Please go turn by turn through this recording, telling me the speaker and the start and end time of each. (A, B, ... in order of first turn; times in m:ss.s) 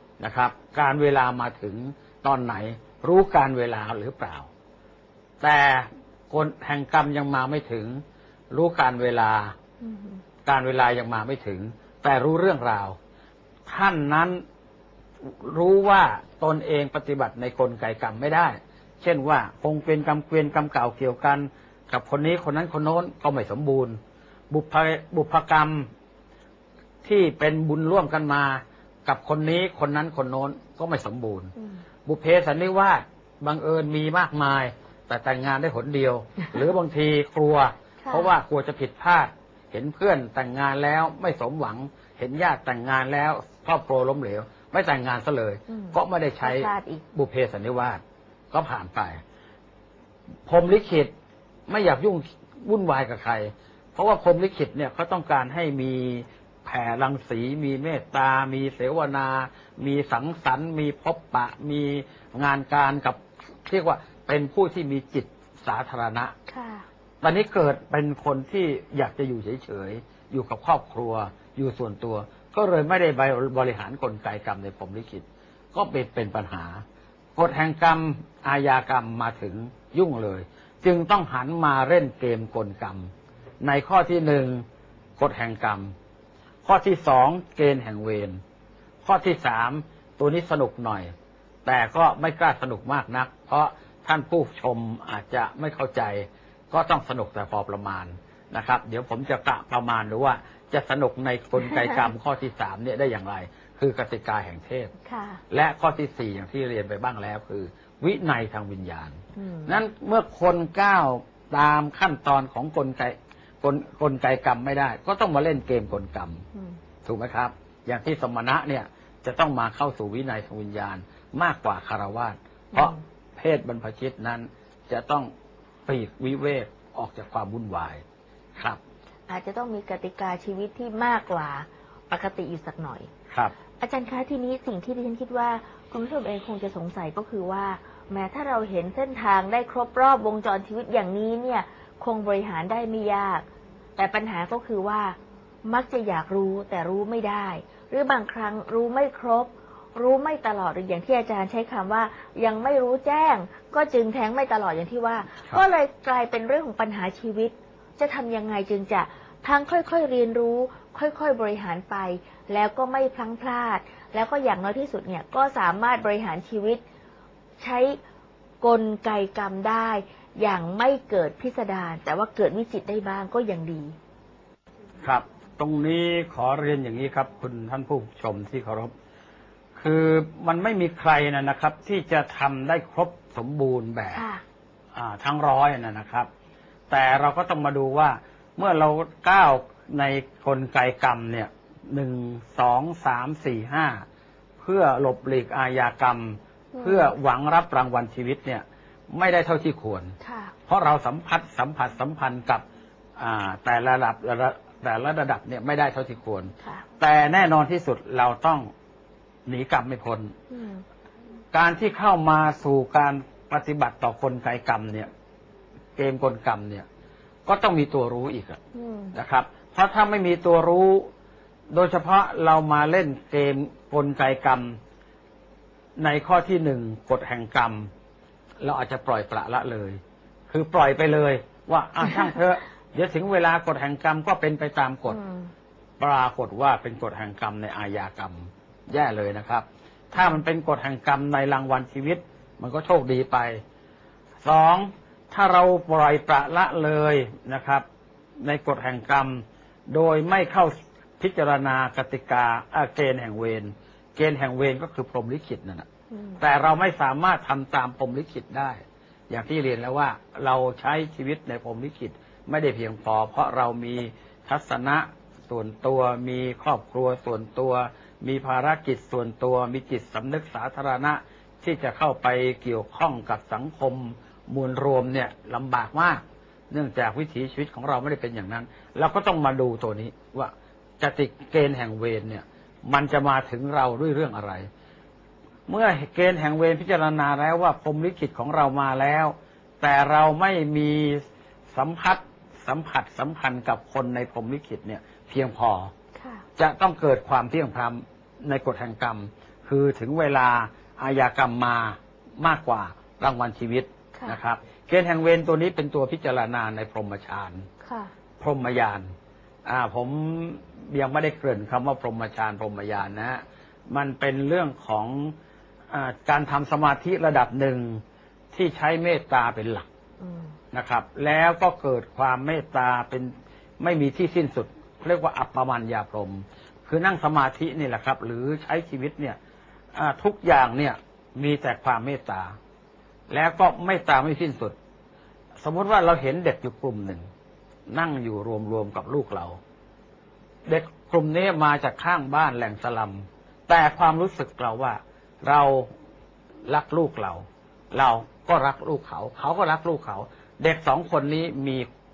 0:00.2-0:04.5 A
0:05.4-0:09.6 A
0:09.8-0:10.2 B
0:10.4-0:13.0 A
0:13.6-0:14.4 A
0:15.2-0:25.9 A
0:27.0-0:31.5 A
0:31.6-0:31.8 B
0:32.0-0:49.2 A
0:38.0-0:38.3 B
0:45.7-0:47.0 B
0:50.5-0:51.1 A
0:51.7-1:06.4 A
1:06.5-1:06.8 B
1:07.2-1:16.8 A
1:17.3-1:24.6 A
1:25.2-1:25.9 A
1:26.6-1:28.4 A
1:29.0-1:31.1 A
1:31.6-1:44.9 A
1:45.0-1:45.4 B
1:45.5-1:56.4 A
1:49.4-1:49.8 B
1:57.0-2:05.3 A
2:02.7-2:03.0 B
2:05.8-2:08.0 A
2:09.3-2:13.1 B
2:13.8-2:23.4 B
2:24.0-2:46.8 B
2:47.6-2:48.0 B
2:48.6-2:53.9 B
2:55.0-2:58.9 A
2:59.8-3:04.2 A
3:04.1-3:04.4 B
3:04.9-3:06.3 A
3:06.9-3:14.0 A
3:14.6-3:22.6 A
3:16.7-3:17.1 B
3:20.2-3:20.5 B
3:23.2-3:28.7 A
3:29.4-3:30.3 A
3:30.5-3:30.8 B
3:31.5-3:35.1 A
3:36.0-3:36.8 A
3:37.4-3:38.6 A
3:38.7-3:39.2 B
3:39.1-3:41.1 A
3:41.7-3:44.8 A
3:46.0-3:47.9 A
3:48.6-3:55.2 A
3:55.1-3:55.5 B
3:56.0-4:03.6 A
4:00.1-4:00.4 B
4:04.4-4:07.8 A
4:08.4-4:15.9 A
4:16.1-4:16.4 B
4:16.4-4:44.7 A
4:45.7-4:55.9 A
4:56.1-4:56.4 B
4:56.6-5:07.7 A
5:07.8-5:08.1 B
5:08.4-5:09.1 A
5:09.6-5:15.3 A
5:15.9-5:19.9 A
5:20.2-5:20.5 B
5:20.7-5:29.4 A
5:29.9-5:32.6 A
5:33.3-5:34.8 A
5:35.6-5:37.3 A
5:37.9-5:39.6 A
5:40.6-5:45.9 A
5:46.7-5:51.9 A